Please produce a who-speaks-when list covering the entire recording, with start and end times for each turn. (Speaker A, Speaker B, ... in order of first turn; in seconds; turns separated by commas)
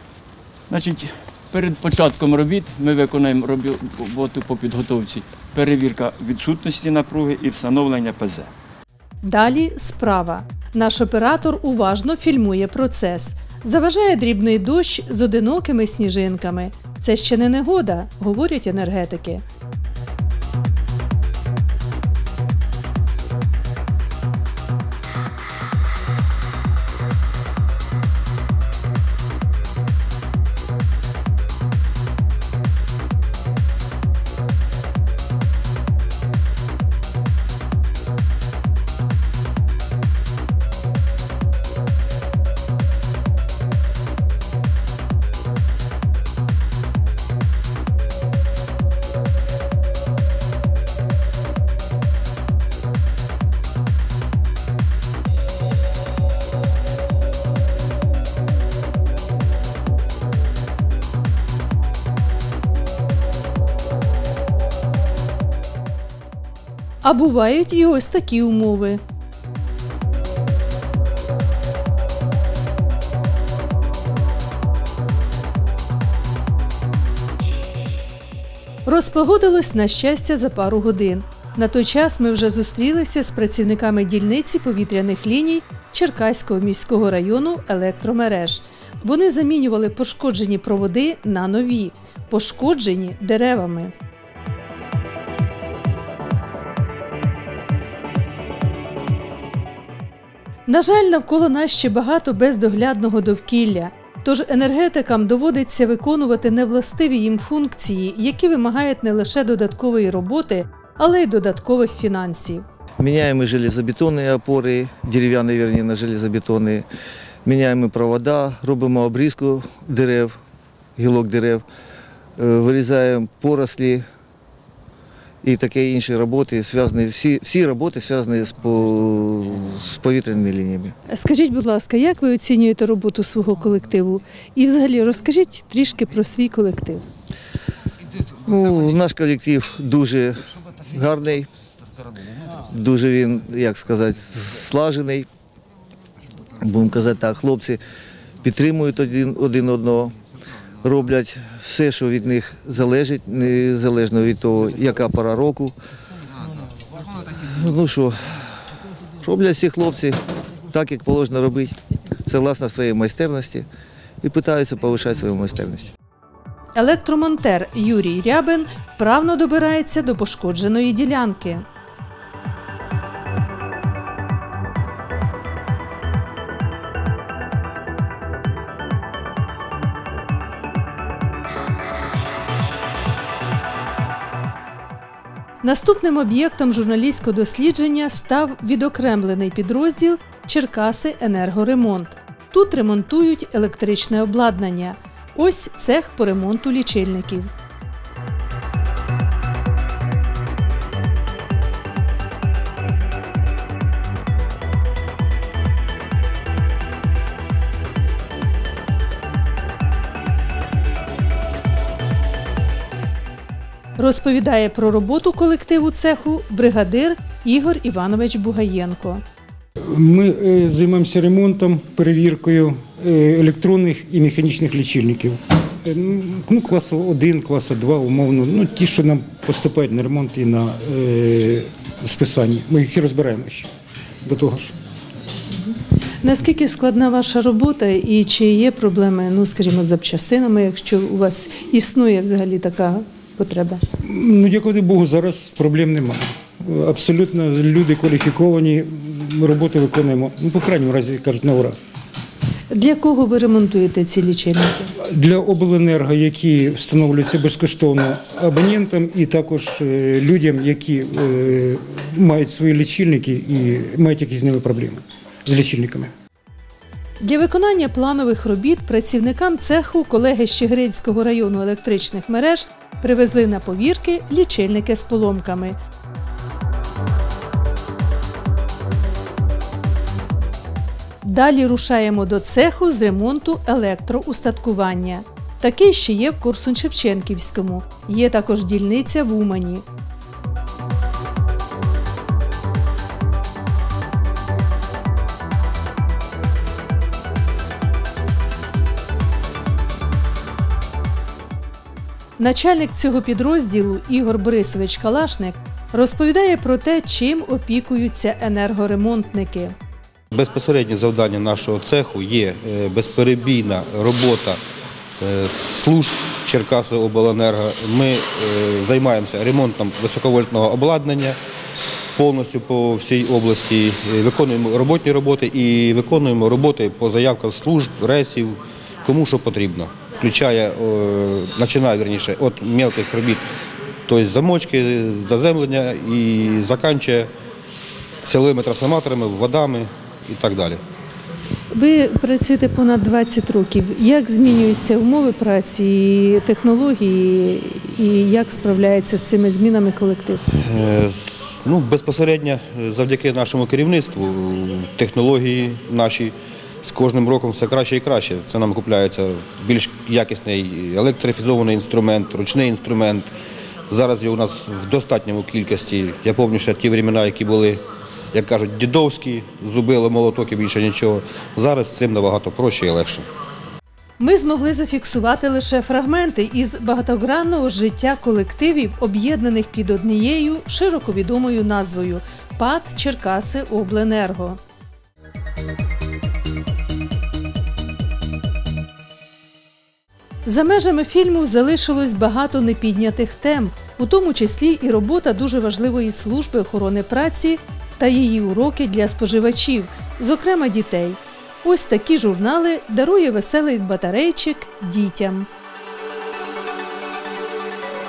Speaker A: 0.7-8.5, Speaker B: 9.2-19.4, Speaker B: 67.0-69.0, Speaker B: 78.8-93.9, Speaker B: 100.7-112.6, Speaker C: 113.0-116.9, Speaker C: 117.5-120.4, Speaker C: 121.0-121.6, Speaker C: 122.4-124.0, Speaker C: 125.4-130.9, Speaker B: 131.1-137.0, Speaker C: 138.4-141.5, Speaker C: 142.6-145.3, Speaker C: 146.6-147.8, Speaker C: 148.4-150.2, Speaker C: 150.8-155.8, Speaker C: 157.3-158.2, Speaker C: 159.2-163.7, Speaker C: 164.2-165.9, Speaker B: 166.8-171.7, Speaker B: 185.6-197.5, Speaker B: 214.0-219.2, Speaker D: 219.9-233.7, Speaker D: 234.2-234.7, Speaker B: 235.5-243.8, Speaker D: 244.1-251.7, Speaker B: 252.7-254.9, Speaker D: 255.1-266.1, Speaker B: 267.2-275.8, Speaker B: 281.2-289.9, Speaker B: 302.4-309.7, Speaker E: 310.3-314.6, Speaker E: 315.2-321.4, Speaker E: 322.1-333.5, Speaker E: 334.1-337.3, Speaker E: 338.2-340.8, Speaker B: 341.7-350.4, Speaker E: 350.5-363.3, Speaker E: 363.9-373.3, Speaker B: 374.2-384.6, Speaker B: 390.4-405.5